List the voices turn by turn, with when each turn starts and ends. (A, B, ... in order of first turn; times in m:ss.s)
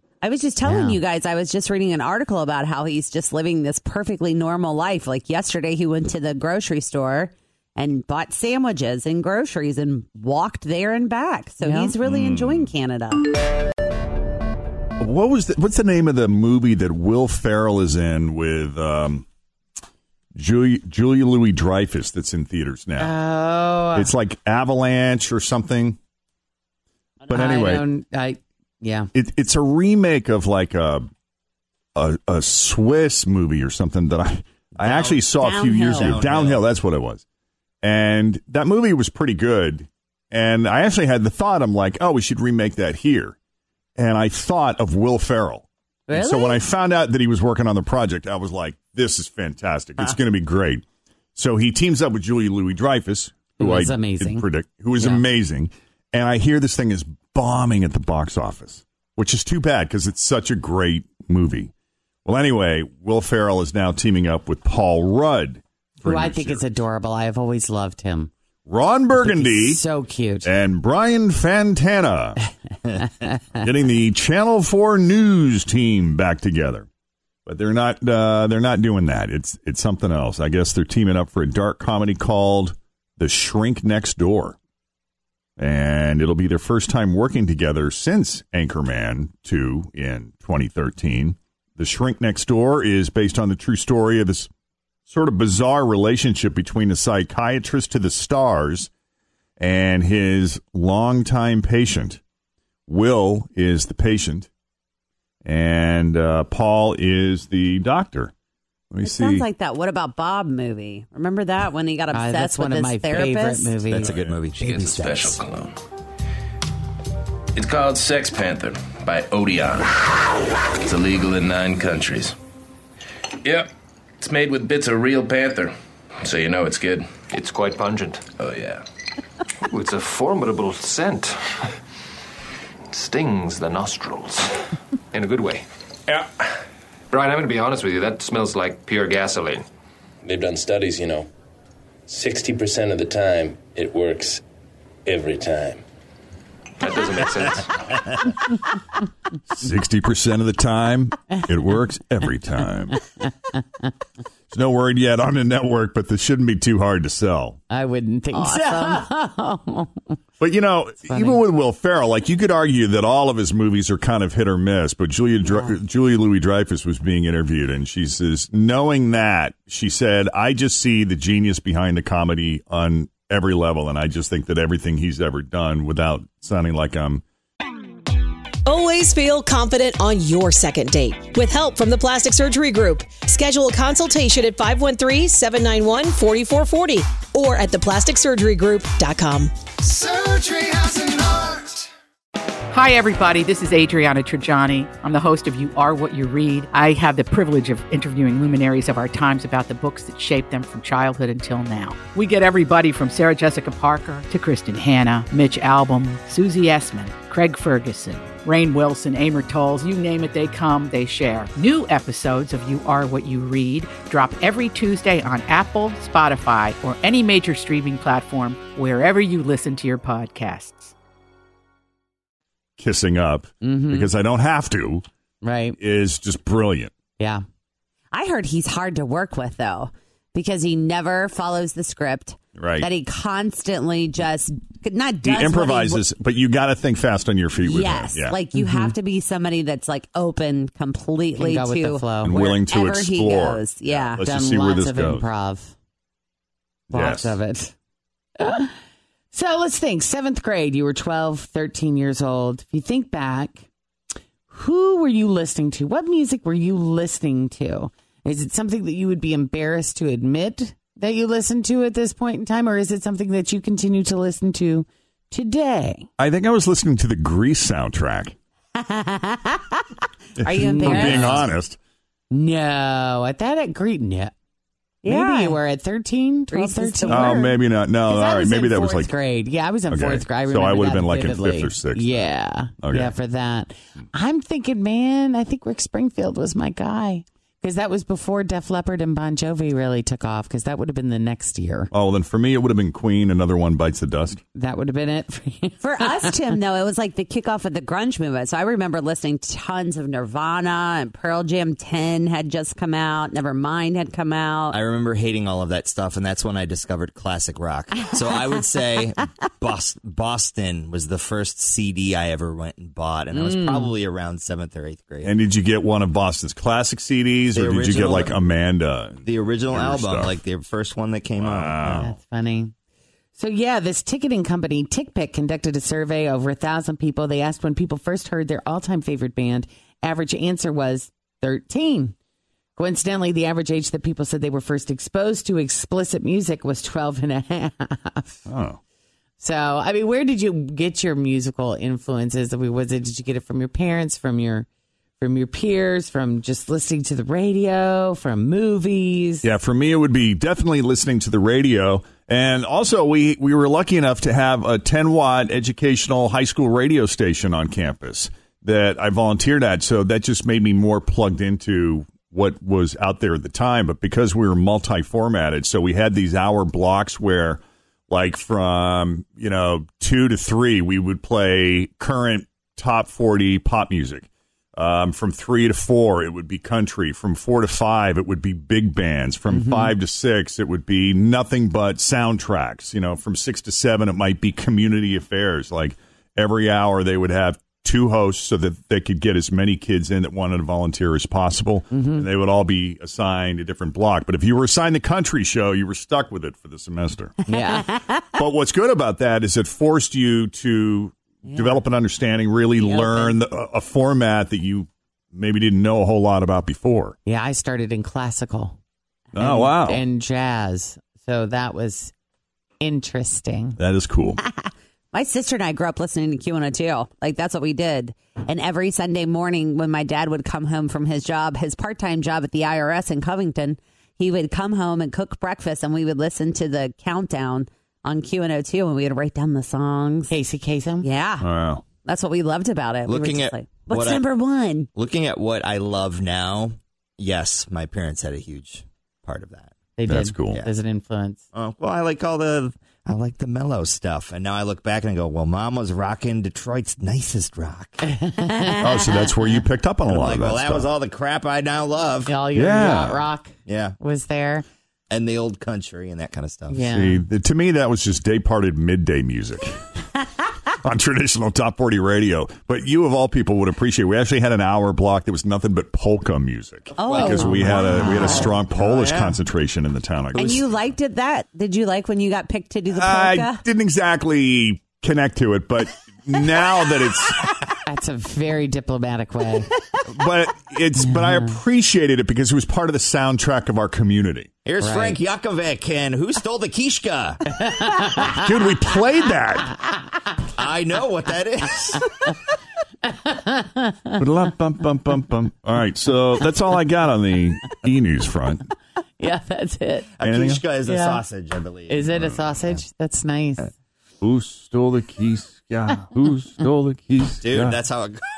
0:00.2-0:13.2 A
0:00.6-0:01.0 B
0:11.6-0:12.7 C
0:15.0-0:19.2 C
0:20.4-0:23.1 C
0:23.0-0:24.1 B
0:23.9-0:26.0 C
0:27.3-0:27.8 C
0:27.3-0:29.1 B
0:29.1-0:31.0 C
0:31.9-0:37.2 C
0:34.8-0:36.7 D
0:35.4-0:36.2 A
0:37.8-0:43.3 C
0:44.0-0:50.8 C
0:46.1-0:46.6 A
0:51.3-1:01.7 C
0:53.6-0:54.5 B
1:02.2-1:06.6 C
1:06.0-1:08.3 B
1:08.7-1:09.8 C
1:09.1-1:10.5 B
1:10.4-1:12.4 C
1:13.6-1:16.9 C
1:17.4-1:24.6 C
1:25.6-1:34.5 C
1:35.1-1:38.9 C
1:39.6-1:42.2 C
1:42.9-1:44.5 C
1:45.4-1:48.3 C
1:48.9-1:49.4 C
1:49.0-1:53.8 A
1:52.1-1:54.1 B
1:53.9-1:55.4 D
1:54.0-1:54.4 C
1:54.6-1:55.8 E
1:57.5-2:02.4 E
2:03.4-2:03.7 E
2:04.2-2:07.2 E
2:07.4-2:08.2 F
2:08.3-2:08.8 E
2:09.8-2:11.3 F
2:12.9-2:14.5 F
2:15.1-2:15.6 F
2:17.1-2:19.6 F
2:20.2-2:21.3 E
2:22.1-2:24.4 E
2:25.0-2:25.8 E
2:26.8-2:27.7 F
2:29.5-2:33.0 C
2:34.5-2:37.6 C
2:37.7-2:39.9 B
2:38.3-2:39.0 A
2:40.4-2:57.2 C
2:41.1-2:41.4 B
2:58.6-3:09.9 G
3:10.2-3:10.7 H
3:12.7-3:40.9 H
3:42.8-3:45.0 C
3:43.6-3:44.1 B
3:45.4-3:45.8 B
3:45.8-3:46.9 C
3:48.1-3:56.0 A
3:52.6-3:52.9 C
3:55.2-3:58.4 C
3:57.6-4:04.2 A
4:01.4-4:02.3 B
4:02.2-4:05.3 C
4:04.2-4:05.7 B
4:06.9-4:07.7 B
4:06.9-4:07.4 C
4:08.4-4:08.7 B
4:09.3-4:13.6 B
4:14.5-4:26.0 B
4:26.2-4:28.3 C
4:28.8-4:29.8 A
4:30.4-4:31.5 A
4:30.4-4:31.8 C
4:30.6-4:31.2 B
4:32.3-4:34.3 B
4:35.0-4:35.6 A
4:35.0-4:37.5 B
4:36.5-4:37.5 A
4:37.1-4:39.1 C
4:38.0-4:51.9 B
4:39.9-4:42.3 C
4:42.8-4:43.1 C
4:51.9-4:54.4 C
4:54.5-4:56.4 B
4:55.8-5:04.8 A
5:04.7-5:15.3 D
5:13.3-5:13.9 B
5:15.2-5:20.4 C
5:17.5-5:18.4 D
5:19.2-5:22.1 D
5:21.4-5:22.1 C
5:22.0-5:22.7 B
5:23.3-5:32.1 B
5:32.8-5:38.4 B
5:38.5-5:38.8 C
5:39.4-5:44.7 B
5:45.2-5:49.5 B
5:49.4-6:37.3 C
6:19.5-6:19.9 B
6:31.9-6:32.2 B
6:37.5-6:37.8 B
6:37.7-6:38.1 A
6:38.3-6:47.2 C
6:41.5-6:41.8 A
6:42.8-6:43.3 A
6:47.2-6:48.8 B
6:49.3-6:52.1 B
6:49.4-6:50.0 C
6:52.8-6:53.8 B
6:53.8-6:54.4 C
6:54.4-7:10.3 A
7:10.3-7:11.1 B
7:11.0-7:11.5 A
7:11.4-7:11.8 C
7:12.0-7:14.9 A
7:13.1-7:14.3 D
7:15.0-7:19.7 D
7:20.0-7:21.4 B
7:20.1-7:20.6 C
7:21.5-7:28.0 D
7:28.2-7:28.8 B
7:28.8-7:30.9 C
7:30.1-7:32.4 D
7:32.2-7:34.6 B
7:32.5-7:33.2 C
7:33.7-7:34.0 D
7:35.1-7:36.9 D
7:36.7-7:37.2 B
7:36.9-7:39.8 C
7:40.8-7:50.8 C
7:47.0-7:47.4 D
7:47.0-7:48.6 A
7:47.4-7:48.5 B
7:48.7-7:49.4 D
7:50.4-7:53.6 A
7:52.9-7:57.5 C
7:57.8-7:59.7 B
8:00.1-8:04.5 C
8:01.1-8:01.5 B
8:04.6-8:07.4 D
8:04.8-8:05.2 B
8:07.6-8:08.3 B
8:08.3-8:09.7 C
8:10.5-8:12.0 D
8:13.0-8:14.2 B
8:14.2-8:18.7 C
8:19.2-8:20.1 B
8:20.2-8:22.0 D
8:20.2-8:20.6 C
8:20.8-8:21.2 B
8:21.9-8:23.7 B
8:24.2-8:27.8 C
8:27.4-8:28.2 D